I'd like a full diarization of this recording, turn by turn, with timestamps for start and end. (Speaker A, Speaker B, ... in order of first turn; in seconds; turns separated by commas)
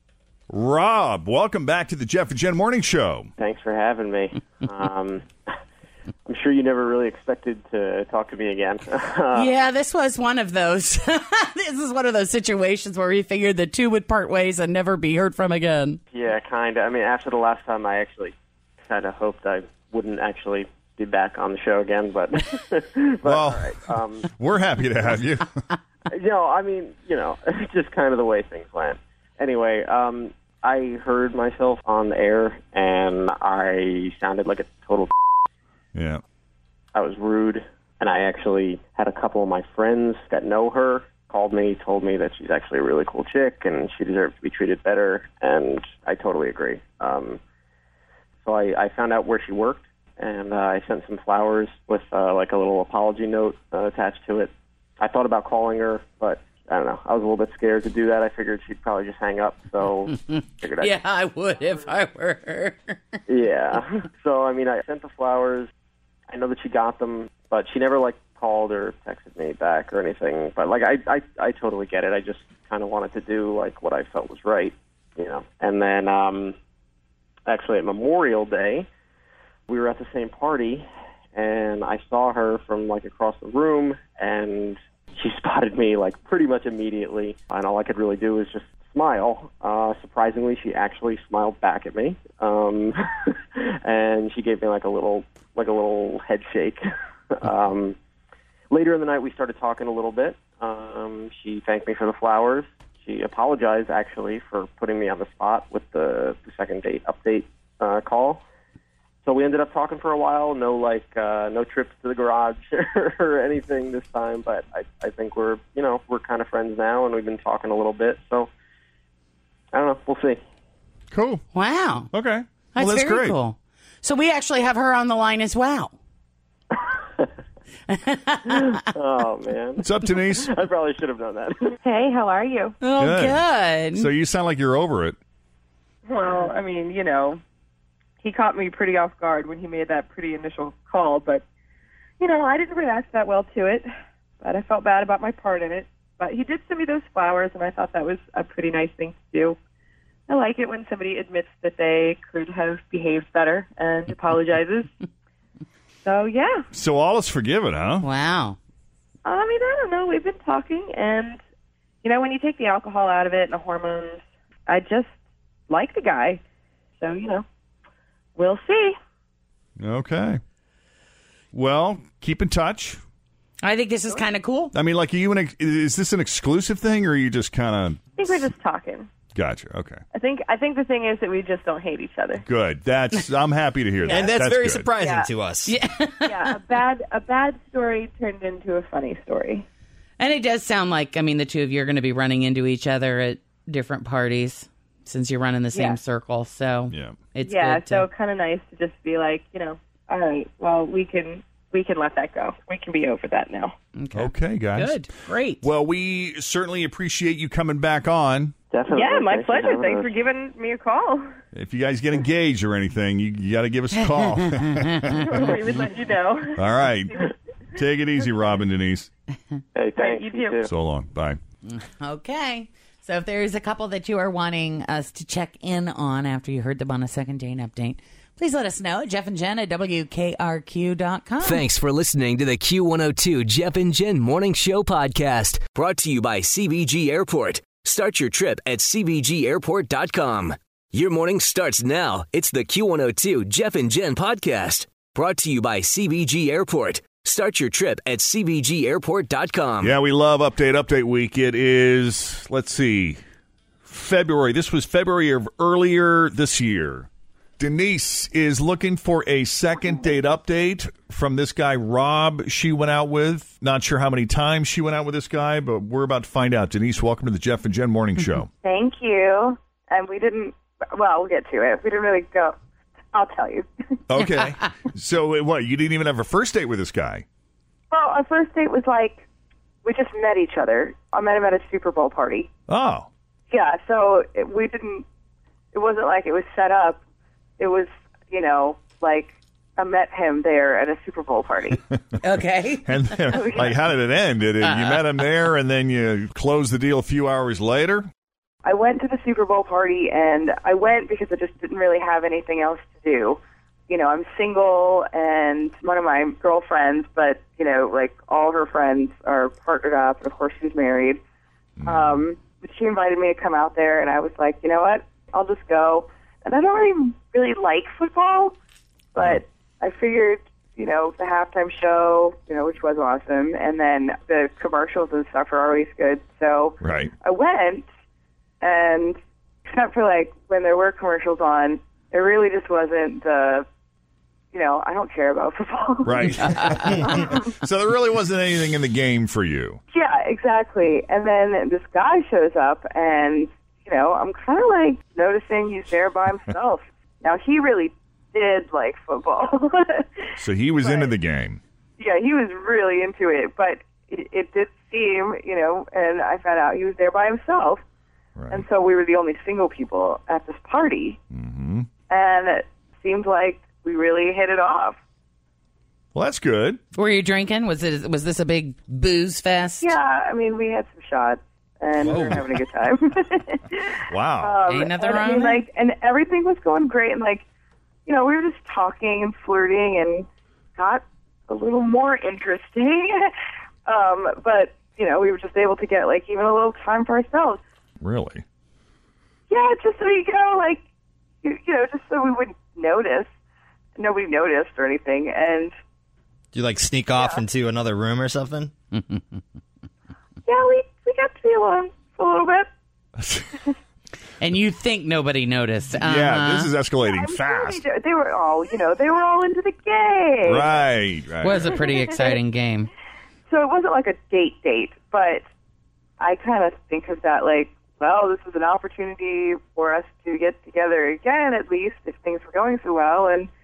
Speaker A: 0.5-3.3, Speaker B: 3.4-5.3, Speaker B: 6.3-9.5, Speaker C: 9.3-16.0, Speaker B: 16.1-18.3, Speaker B: 18.9-24.3, Speaker A: 23.2-25.5, Speaker B: 26.1-35.1, Speaker A: 35.9-36.2, Speaker B: 36.9-47.4, Speaker B: 48.4-60.9, Speaker C: 60.8-63.0, Speaker B: 63.3-65.7, Speaker B: 66.3-76.5, Speaker B: 77.5-78.9, Speaker B: 79.7-92.9, Speaker B: 93.6-96.8, Speaker B: 97.4-98.0, Speaker B: 98.7-108.4, Speaker B: 109.2-118.5, Speaker B: 119.7-120.4, Speaker A: 121.1-121.4, Speaker C: 121.5-122.1, Speaker A: 122.1-123.4, Speaker C: 122.7-125.9, Speaker C: 127.9-128.8, Speaker B: 128.6-131.7, Speaker A: 129.8-130.5, Speaker D: 131.8-132.7, Speaker C: 132.8-134.1, Speaker A: 133.0-135.2, Speaker D: 136.1-137.4, Speaker D: 138.2-141.4, Speaker D: 142.2-143.9, Speaker D: 144.4-149.6, Speaker D: 150.3-154.9, Speaker D: 156.0-156.6, Speaker A: 156.7-158.1, Speaker C: 158.0-158.6, Speaker D: 159.2-161.4, Speaker D: 162.0-165.1, Speaker D: 165.7-166.4, Speaker D: 167.0-167.4, Speaker D: 168.3-168.9, Speaker A: 169.8-170.4, Speaker A: 171.5-173.0, Speaker C: 173.6-174.7, Speaker A: 174.7-178.1, Speaker D: 178.2-179.1, Speaker A: 179.3-180.0, Speaker D: 180.1-182.4, Speaker A: 182.4-184.9, Speaker E: 184.1-185.7, Speaker D: 184.9-185.3, Speaker C: 185.7-186.5, Speaker D: 186.2-189.6, Speaker C: 190.2-198.1, Speaker D: 195.7-196.0, Speaker A: 196.9-197.2, Speaker D: 197.4-203.7, Speaker C: 203.9-205.6, Speaker A: 204.1-205.0, Speaker A: 205.6-208.5, Speaker B: 208.7-210.2, Speaker D: 208.9-211.3, Speaker A: 211.5-215.5, Speaker C: 214.4-214.7, Speaker D: 215.1-217.2, Speaker A: 216.6-217.2, Speaker A: 217.8-219.1, Speaker B: 219.7-220.7, Speaker D: 219.9-220.7, Speaker A: 220.6-221.4, Speaker C: 221.6-231.7, Speaker F: 231.4-249.9, Speaker A: 249.8-253.2, Speaker A: 253.8-257.1, Speaker A: 257.6-268.5, Speaker D: 268.6-272.5, Speaker D: 273.1-273.6, Speaker A: 274.1-277.2, Speaker D: 277.9-279.2, Speaker D: 279.8-282.5, Speaker A: 282.7-283.1, Speaker D: 283.5-285.0, Speaker D: 285.7-287.0, Speaker D: 287.6-291.8, Speaker C: 292.2-293.2, Speaker A: 292.8-298.1, Speaker D: 293.3-293.8, Speaker C: 294.7-295.0, Speaker D: 298.6-311.2, Speaker A: 311.8-312.2, Speaker D: 311.9-318.5, Speaker D: 319.1-327.8, Speaker A: 319.2-319.4, Speaker A: 326.8-327.1, Speaker D: 328.6-333.6, Speaker D: 334.5-337.4, Speaker A: 336.0-339.8, Speaker D: 339.9-350.1, Speaker A: 350.4-351.6, Speaker D: 350.8-351.1, Speaker D: 352.0-357.8, Speaker A: 358.4-358.6, Speaker D: 358.5-361.2, Speaker A: 361.3-361.9, Speaker D: 362.1-365.0, Speaker A: 366.1-366.8, Speaker C: 366.9-369.9, Speaker D: 369.8-377.4, Speaker A: 372.0-372.5, Speaker A: 374.1-374.6, Speaker C: 374.7-375.6, Speaker D: 378.1-383.3, Speaker D: 383.9-387.6, Speaker A: 388.0-388.4, Speaker D: 389.5-390.8, Speaker D: 391.4-393.3, Speaker D: 394.0-395.7, Speaker E: 396.5-398.7, Speaker C: 398.9-399.2, Speaker D: 400.4-402.7, Speaker C: 404.4-406.7, Speaker A: 406.0-407.8, Speaker D: 407.0-410.8, Speaker A: 410.4-411.8, Speaker C: 411.4-412.9, Speaker D: 411.9-412.4, Speaker D: 413.5-415.4, Speaker D: 416.2-423.5